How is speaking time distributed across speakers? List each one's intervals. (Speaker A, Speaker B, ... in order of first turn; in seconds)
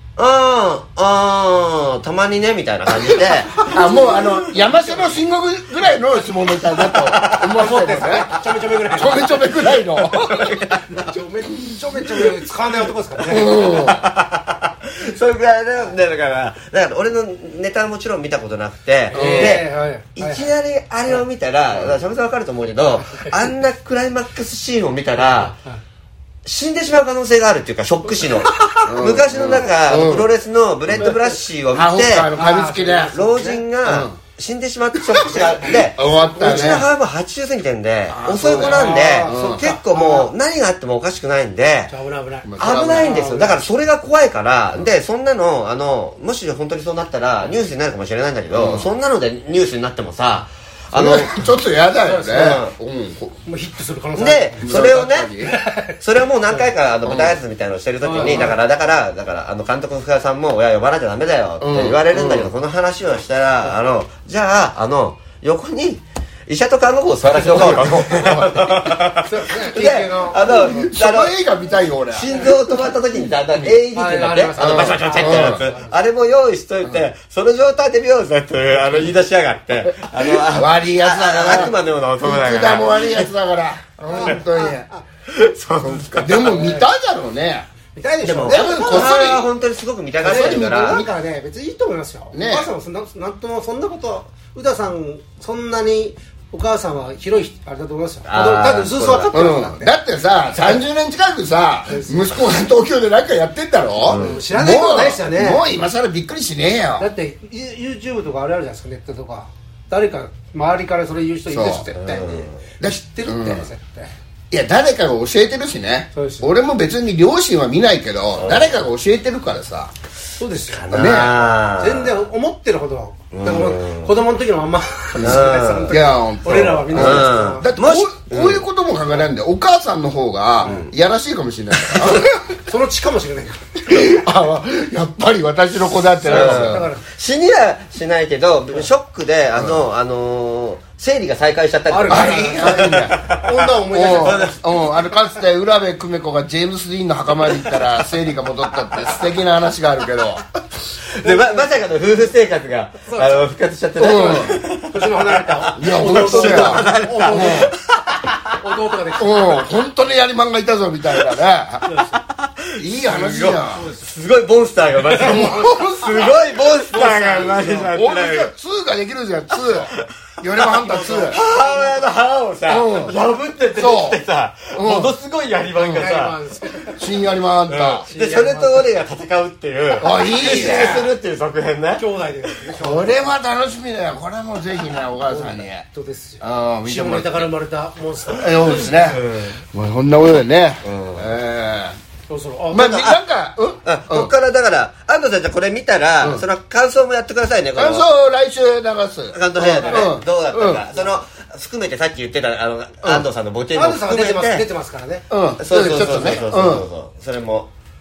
Speaker A: 0.2-4.4, 6.6-8.4, 10.2-10.8, 13.3-25.5, 26.4-32.4, 33.1-41.9, 42.6-51.5, 52.3-52.7, 54.1-55.3, 55.9-71.3, 72.1-83.3, 84.1-84.4, 85.3-86.6, 88.2-91.1, 98.2-99.4, 104.0-104.3, 112.0-112.5, 118.3-118.7, 120.7-122.2, 123.3-124.2, 125.2-128.6, 130.6-130.9, 131.8-132.2, 136.3-144.6, 151.1-158.3, 162.3-168.5, 169.6-170.6, 171.2-176.3, 177.7-182.6, 188.8-189.6, 190.8-191.3, 192.7-193.2, 193.8-198.1, 199.3-204.7, 205.6-207.7
Speaker B: 3.1-8.3, 8.9-10.4, 13.3-14.1, 19.1-19.6, 28.8-30.3, 31.7-33.2, 33.8-34.2, 35.1-36.9, 38.1-39.7, 42.4-43.2, 48.5-48.9, 50.9-53.4, 54.6-55.6, 57.0-57.4, 58.2-58.5, 61.6-62.5, 67.4-68.7, 70.4-72.4, 74.6-75.7, 80.2-84.9, 85.8-87.7, 88.4-89.5, 90.2-91.1, 92.3-92.7, 99.3-107.1, 111.5-111.9, 112.8-113.7, 114.5-119.9, 120.9-121.3, 125.1-132.4, 133.8-136.9, 139.6-139.8, 142.1-143.2, 143.9-150.4, 154.0-154.6, 155.8-157.7, 159.2-162.0, 162.8-163.8, 165.2-166.0, 167.9-171.4, 172.7-173.1, 173.7-174.2, 174.7-175.1, 175.8-176.1, 177.0-178.1, 180.0-181.1, 182.7-185.8, 186.4-187.5, 188.2-189.2, 189.7-191.9, 192.7-194.3, 196.2-196.4, 197.7-200.8, 205.3-206.8
Speaker C: 3.8-4.2, 7.6-13.8, 19.1-20.5, 25.2-25.8, 32.3-33.6, 35.3-36.9, 38.4-40.3, 41.9-43.6, 52.0-52.6, 53.4-54.9, 55.4-56.0, 56.5-56.7, 58.0-58.6, 67.7-68.2, 69.2-70.5, 73.9-76.0, 84.1-85.0, 86.5-86.9, 87.9-89.3, 90.2-99.9, 101.9-102.5, 104.2-105.6, 107.0-114.1, 116.1-116.5, 120.4-127.7, 132.7-133.7, 136.2-137.0, 141.9-144.5, 151.2-151.6, 153.0-153.4, 154.9-157.7, 158.6-159.7, 161.8-162.2, 163.7-164.1, 165.0-166.3, 166.9-167.9, 170.7-172.1, 175.9-177.0, 178.1-178.9, 180.2-181.0, 181.9-183.3, 185.3-188.9, 192.3-193.0, 199.6-200.1, 203.7-205.3